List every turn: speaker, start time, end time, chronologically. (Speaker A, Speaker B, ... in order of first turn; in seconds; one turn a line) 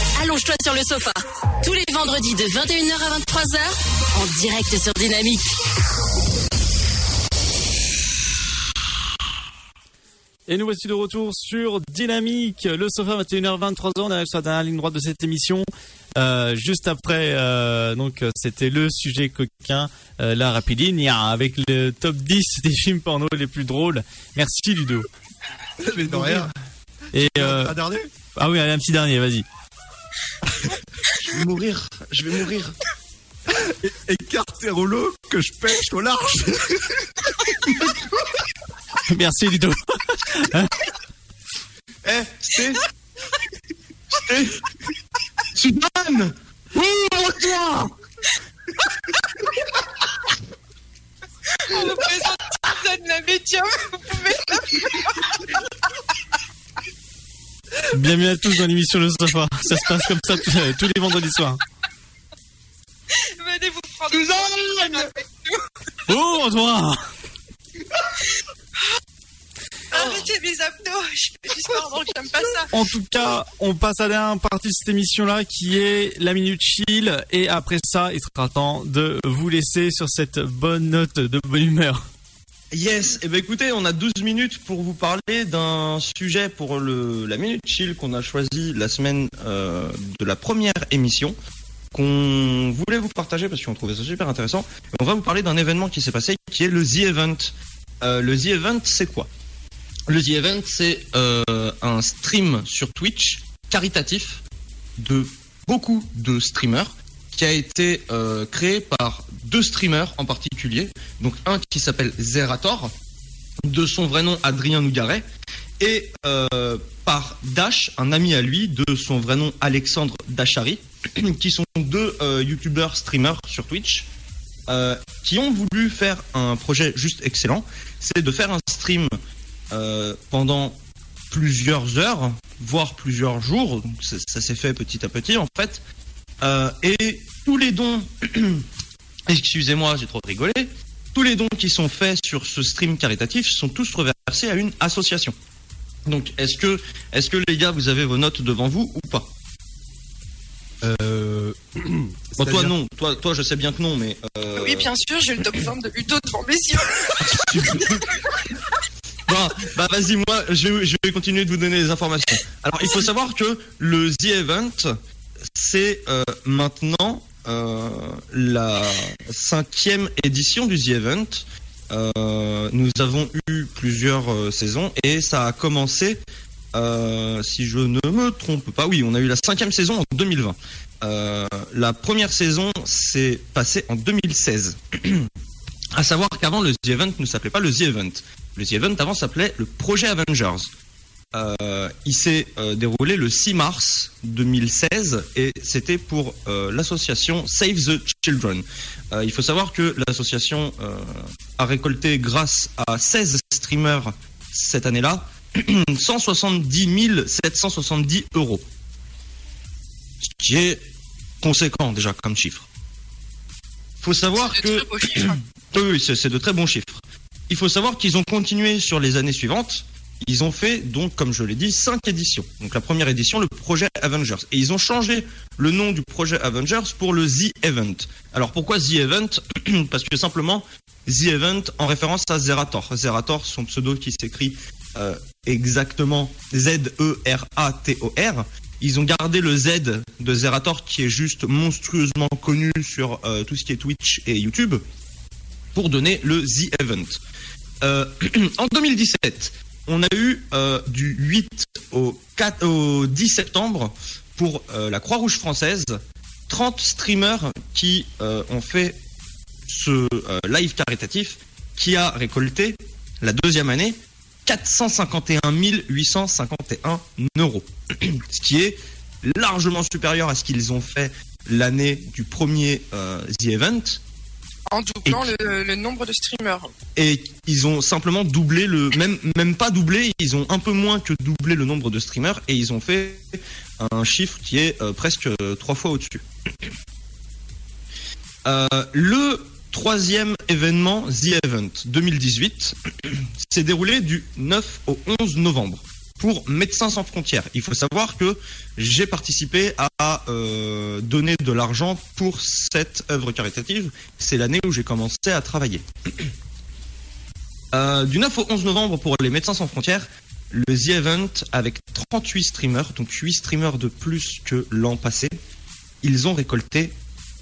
Speaker A: 0.1-5.5
Speaker B: 10.5-25.1
Speaker C: 25.8-26.5
Speaker B: 27.1-27.8
Speaker C: 27.2-28.1
Speaker B: 28.4-29.4
Speaker D: 31.1-32.8
Speaker C: 33.5-37.1
Speaker B: 39.1-40.9
Speaker D: 42.0-42.8
Speaker D: 44.1-44.6
Speaker D: 45.5-47.9
Speaker E: 51.6-55.5
Speaker B: 57.9-61.6
Speaker E: 63.1-65.6
Speaker D: 64.1-65.1
Speaker B: 66.1-67.0
Speaker E: 69.9-72.7
Speaker B: 72.7-82.0
Speaker D: 82.7-91.4
Speaker D: 91.9-99.3
Speaker D: 100.1-104.4
Speaker D: 105.0-112.9
Speaker D: 113.6-115.2
Speaker D: 115.8-124.1
Speaker D: 124.7-129.2
Speaker D: 129.7-130.8
Speaker D: 131.3-135.8
Speaker D: 136.4-138.7
Speaker D: 139.3-145.3
Speaker D: 146.1-149.3
Speaker C: 150.8-152.7
Speaker D: 152.4-154.9
Speaker E: 154.6-157.7
Speaker D: 157.3-157.9
Speaker D: 159.3-164.9
Speaker D: 165.5-185.3
Speaker D: 185.9-190.7
Speaker D: 191.3-208.6
Speaker D: 210.2-210.8
Speaker D: 211.4-212.7
Speaker D: 214.0-244.8
Speaker E: 214.3-215.4
Speaker D: 245.7-247.2
Speaker D: 247.8-259.0
Speaker D: 259.7-274.0
Speaker E: 274.7-276.7
Speaker D: 275.1-275.3
Speaker D: 276.9-286.2
Speaker D: 288.4-306.3
Speaker D: 307.7-315.4
Speaker D: 316.0-316.9